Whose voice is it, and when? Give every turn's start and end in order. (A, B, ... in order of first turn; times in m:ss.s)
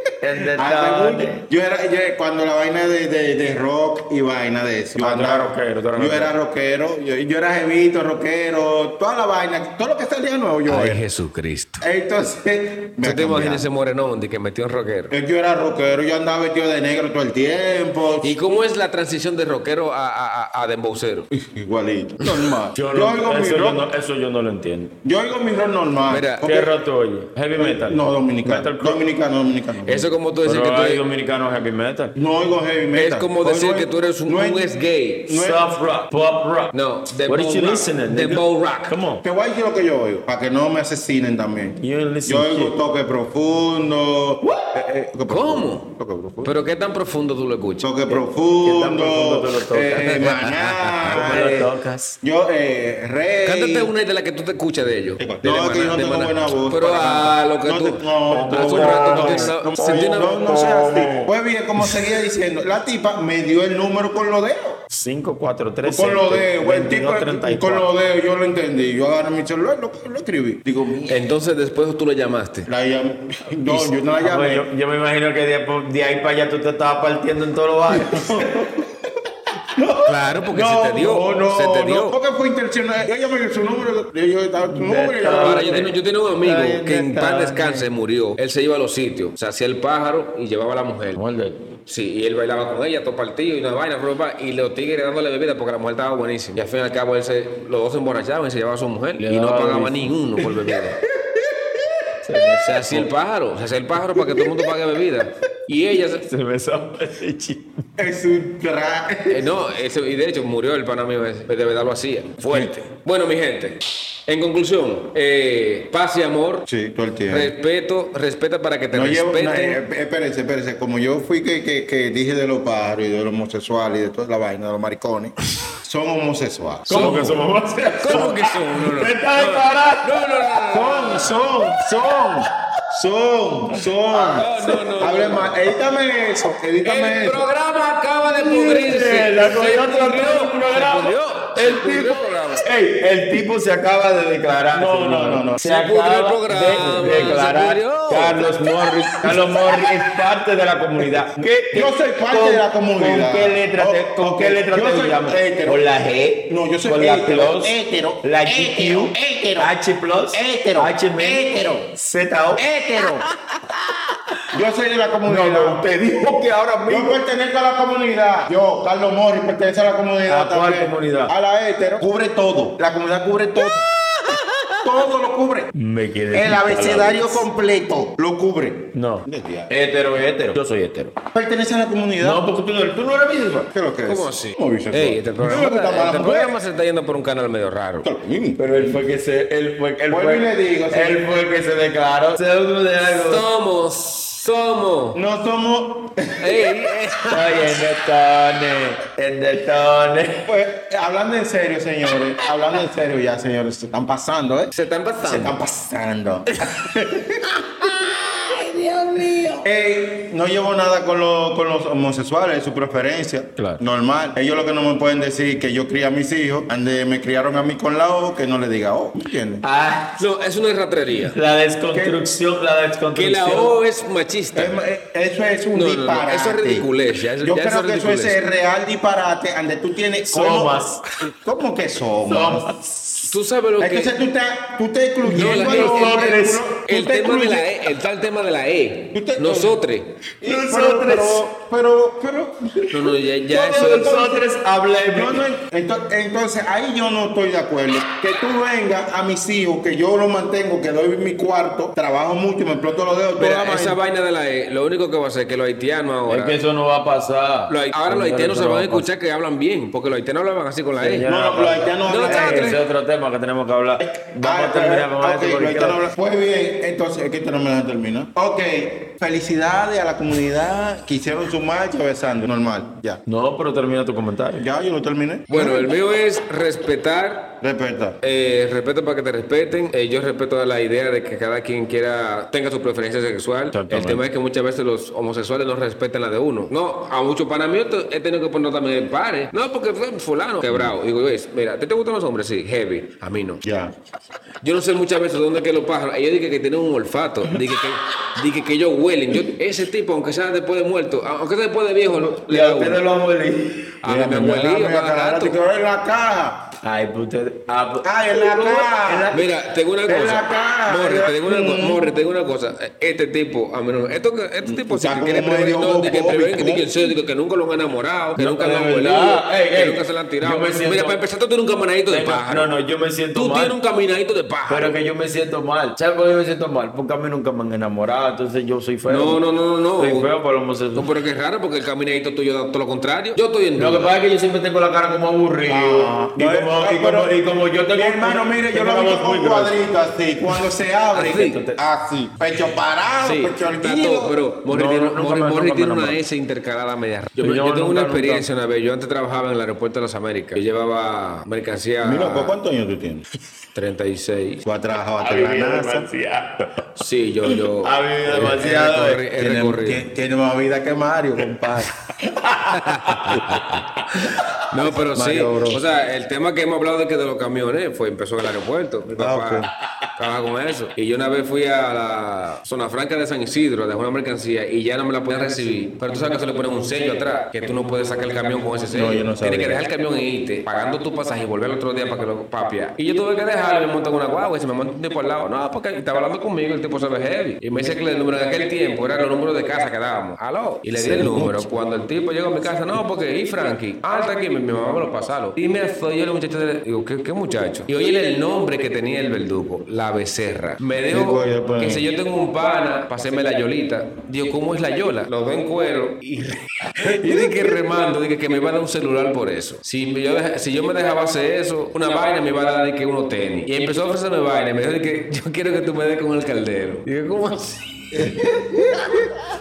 0:00.2-0:01.4 A
0:00.5-0:11.0 B
0:05.0-0:06.3 A
0:10.7-0:11.8 C
0:11.8-0:13.7 B
0:13.0-0:15.1 C
0:15.1-0:18.4 B
0:18.2-0:21.3 C
0:21.3-0:23.9 B
0:22.2-0:22.6 C
0:22.8-0:24.9 A
0:25.0-0:26.7 B
0:26.1-0:26.5 C
0:26.4-0:29.0 A
0:27.6-0:30.1 B
0:29.8-0:31.0 C
0:30.4-0:32.2 A
0:32.2-0:35.7 B
0:33.0-0:35.4 C
0:35.3-0:36.7 A
0:36.7-0:39.0 C
0:37.2-0:39.2 A
0:39.2-0:46.6 B
0:41.8-0:42.7 A
0:45.3-0:45.8 C
0:46.4-0:47.9 C
0:47.8-0:53.9 B
0:48.1-0:50.2 A
0:50.0-0:51.2 C
0:51.0-0:52.2 A
0:53.4-1:00.4 C
0:55.2-1:04.8 B
0:58.3-1:02.1 A
1:04.9-1:07.9 A
1:05.8-1:11.2 B
1:11.1-1:12.7 C
1:12.7-1:14.7 B
1:13.7-1:18.7 A
1:17.9-1:18.7 B
1:19.7-1:25.7 B
1:20.1-1:22.2 C
1:24.7-1:27.9 A
1:25.3-1:31.2 C
1:31.2-1:31.8 A
1:31.9-1:41.0 C
1:39.2-1:40.2 A
1:40.4-1:42.1 B
1:42.2-1:43.1 A
1:42.6-1:46.2 C
1:44.2-1:44.7 B
1:46.2-1:47.8 A
1:48.0-1:49.5 B
1:49.3-1:56.7 C
1:56.7-1:57.5 B
1:57.3-1:59.8 C
1:58.9-2:07.3 B
2:06.9-2:10.1 A
2:06.9-2:11.8 C
2:10.7-2:12.5 A
2:12.9-2:17.5 B
2:14.1-2:14.8 A
2:14.3-2:15.7 C
2:16.8-2:22.7 C
2:18.3-2:44.4 A
2:24.7-2:25.6 B
2:25.6-2:29.2 C
2:29.2-2:30.2 B
2:31.7-2:35.9 B
2:36.5-2:39.7 B
2:40.3-2:41.9 B
2:42.6-2:43.3 B
2:44.5-2:53.9 B
2:45.3-2:47.2 A
2:50.3-2:51.3 A
2:54.8-2:55.7 B
2:55.7-2:57.4 A
2:56.3-2:59.7 B
2:58.9-3:01.2 A
3:01.3-3:02.4 B
3:02.2-3:03.7 A
3:03.7-3:06.6 B
3:04.1-3:08.1 C
3:08.0-3:08.6 B
3:08.6-3:13.4 A
3:10.1-3:11.2 B
3:13.0-3:15.2 C
3:15.1-3:16.8 B
3:16.4-3:17.9 C
3:17.3-3:20.5 A
3:20.5-3:39.6 B
3:24.7-3:25.6 C
3:28.3-3:29.6 A
3:39.6-3:40.2 A
3:40.2-3:41.4 C
3:41.3-3:43.8 A
3:41.9-3:42.2 B
3:43.1-3:44.8 C
3:44.6-3:46.9 B
3:45.7-3:48.4 C
3:47.4-3:52.7 B
3:50.2-3:51.0 A
3:52.3-3:53.3 A
3:53.3-3:54.1 C
3:53.8-3:57.7 B
3:55.2-3:56.7 A
3:55.3-4:00.1 C
3:59.1-3:59.8 B
4:00.4-4:04.4 B
4:00.4-4:01.4 A
4:02.9-4:04.2 C
4:03.5-4:05.4 A
4:05.1-4:14.0 B
4:13.4-4:16.6 C
4:16.3-4:19.0 A
4:17.7-4:21.3 C
4:21.0-4:26.0 A
4:21.3-4:22.8 B
4:22.1-4:22.8 C
4:24.2-4:33.2 B
4:33.3-4:34.6 A
4:34.6-4:35.9 B
4:35.5-4:37.6 C
4:37.6-4:38.2 B
4:38.2-4:53.6 C
4:43.7-4:44.2 A
4:53.6-4:53.9 B
4:54.6-5:03.0 C
5:02.1-5:03.9 A
5:04.0-5:05.6 C
5:04.0-5:06.7 B
5:06.8-5:09.5 A
5:08.0-5:09.4 B
5:09.3-5:22.7 C
5:10.1-5:12.1 B
5:14.6-5:16.9 B
5:18.4-5:21.1 A
5:22.1-5:23.8 A
5:23.3-5:24.9 C
5:24.7-5:29.4 A
5:29.1-5:30.3 C
5:30.0-5:31.1 A
5:31.0-5:34.1 C
5:33.8-5:39.7 A
5:35.7-5:37.3 B
5:37.9-5:44.4 B
5:41.1-5:41.6 C
5:41.3-5:41.8 A
5:43.2-5:52.5 C
5:44.7-5:46.2 A
5:47.4-5:48.5 A
5:52.0-5:53.2 B
5:53.7-5:54.6 C
5:54.6-5:56.1 B
5:55.2-5:57.0 A
5:57.0-6:00.1 C
5:57.8-5:59.2 A
5:59.3-6:02.6 B
6:02.2-6:03.5 A
6:02.7-6:58.2 C
6:03.1-6:03.6 B
6:04.8-6:05.8 B
6:09.1-6:09.7 B
6:18.9-6:19.8 B
6:31.0-6:31.7 B
6:41.1-6:42.1 B
6:58.1-6:59.3 B